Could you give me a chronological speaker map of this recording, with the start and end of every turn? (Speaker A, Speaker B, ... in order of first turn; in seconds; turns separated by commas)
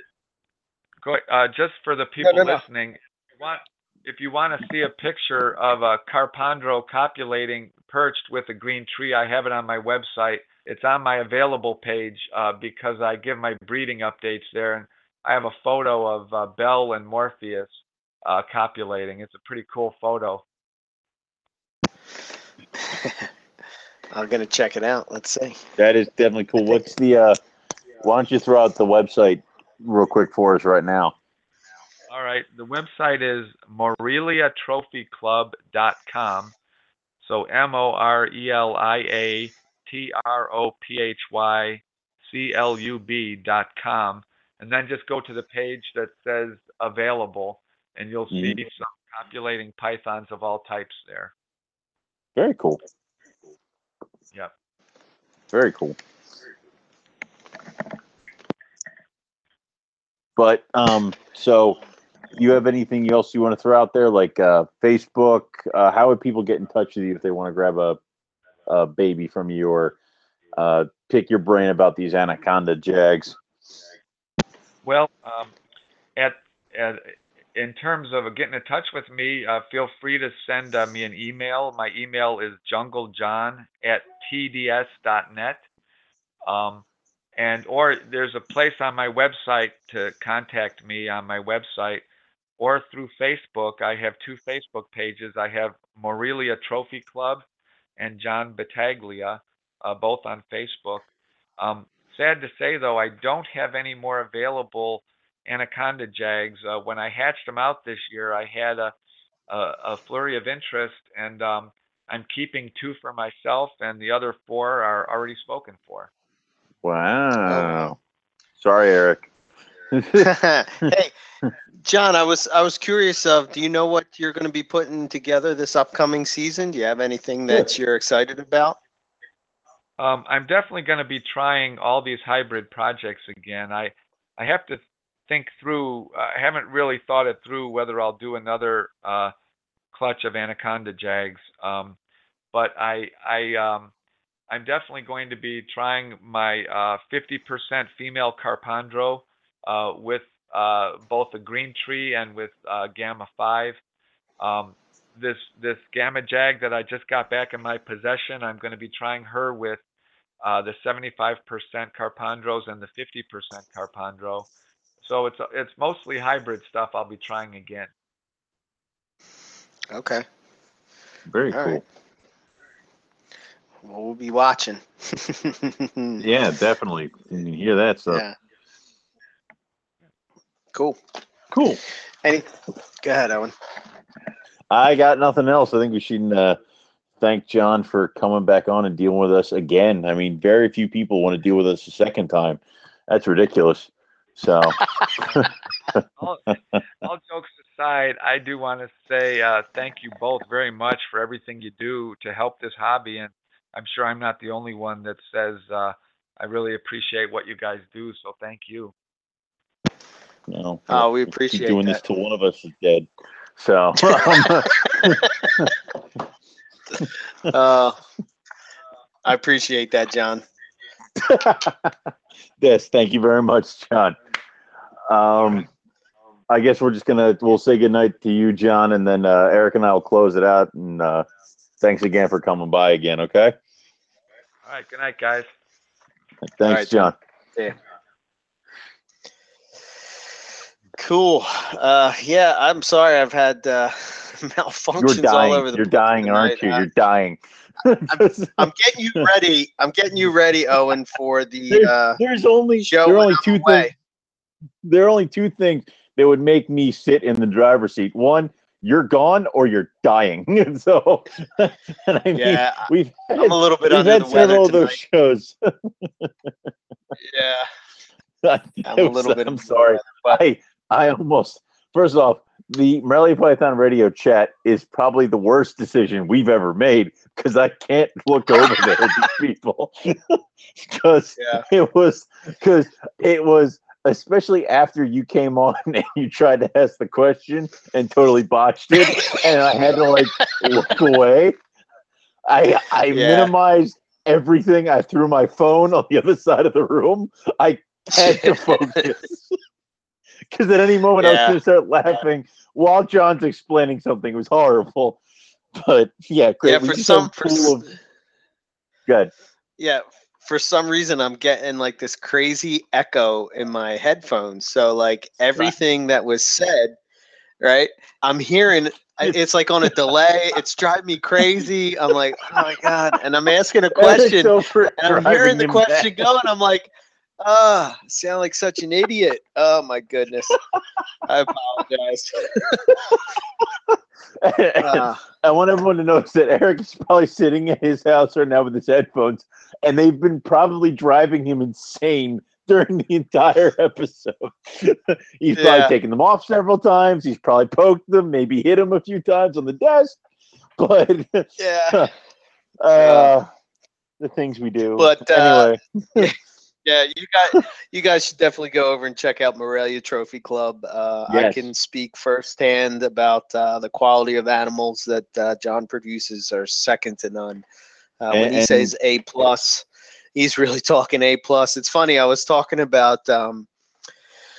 Speaker A: 1.0-17.7, Speaker B: 2.2-2.6, Speaker A: 18.2-20.4, Speaker B: 22.9-23.3, Speaker B: 24.1-25.6, Speaker C: 25.8-27.4, Speaker C: 28.0-31.1, Speaker A: 32.1-36.5, Speaker A: 37.2-51.3, Speaker C: 48.3-48.6, Speaker C: 52.4-52.8, Speaker C: 55.5-56.0, Speaker C: 60.4-61.8, Speaker C: 62.3-68.0, Speaker C: 68.7-70.0, Speaker C: 70.5-73.4, Speaker A: 74.8-75.5, Speaker A: 76.2-85.6, Speaker A: 86.4-86.8, Speaker A: 87.4-92.0, Speaker A: 92.6-97.4, Speaker A: 98.0-101.1, Speaker A: 101.6-108.9, Speaker A: 109.5-116.1, Speaker C: 116.8-118.0, Speaker B: 117.5-117.9, Speaker C: 118.6-119.2, Speaker C: 119.9-120.3, Speaker B: 120.2-121.1, Speaker B: 121.8-128.8, Speaker A: 130.0-139.3, Speaker A: 139.9-142.0, Speaker A: 142.5-143.9, Speaker A: 144.5-153.8, Speaker A: 154.4-159.8, Speaker A: 160.4-164.5, Speaker A: 165.0-167.9, Speaker B: 169.9-170.2, Speaker C: 171.3-171.8, Speaker B: 171.5-171.8, Speaker B: 173.8-176.2, Speaker C: 176.2-178.2, Speaker B: 178.1-178.3, Speaker B: 180.7-181.0, Speaker C: 181.5-181.8, Speaker B: 182.2-183.5, Speaker C: 184.7-186.6, Speaker C: 187.2-194.8, Speaker A: 195.2-195.5, Speaker C: 195.3-196.0, Speaker A: 196.2-208.9, Speaker C: 210.5-213.1, Speaker B: 210.9-212.0, Speaker C: 213.6-215.7, Speaker B: 214.1-214.7, Speaker B: 217.5-218.0, Speaker B: 219.2-220.4, Speaker C: 221.2-221.9, Speaker C: 222.6-224.2, Speaker C: 225.1-225.7, Speaker C: 226.5-231.2, Speaker C: 231.8-233.6, Speaker A: 234.7-235.5, Speaker C: 236.4-237.1, Speaker B: 236.6-237.8, Speaker B: 241.0-246.8, Speaker C: 244.9-249.2, Speaker B: 248.1-252.2, Speaker C: 251.7-253.9, Speaker B: 252.8-253.9, Speaker C: 254.8-266.5, Speaker B: 262.3-265.0, Speaker B: 267.2-267.7, Speaker C: 268.4-291.6, Speaker B: 268.8-270.4, Speaker B: 281.4-281.6, Speaker B: 288.9-289.4, Speaker C: 292.5-299.5, Speaker B: 293.1-293.5, Speaker B: 298.1-299.0, Speaker C: 300.5-305.2, Speaker B: 301.2-301.6, Speaker C: 305.7-307.9, Speaker B: 306.6-307.9, Speaker C: 309.1-309.3, Speaker B: 309.8-316.9, Speaker B: 317.6-330.6, Speaker C: 323.9-326.3, Speaker B: 331.2-333.0, Speaker C: 333.9-350.2, Speaker B: 334.8-335.2, Speaker B: 345.5-345.9, Speaker C: 350.8-352.1, Speaker B: 351.6-352.1, Speaker C: 352.8-353.5, Speaker B: 352.9-353.3, Speaker C: 354.2-356.3, Speaker B: 355.0-367.6, Speaker C: 361.3-361.6, Speaker B: 368.2-373.7, Speaker C: 368.3-368.9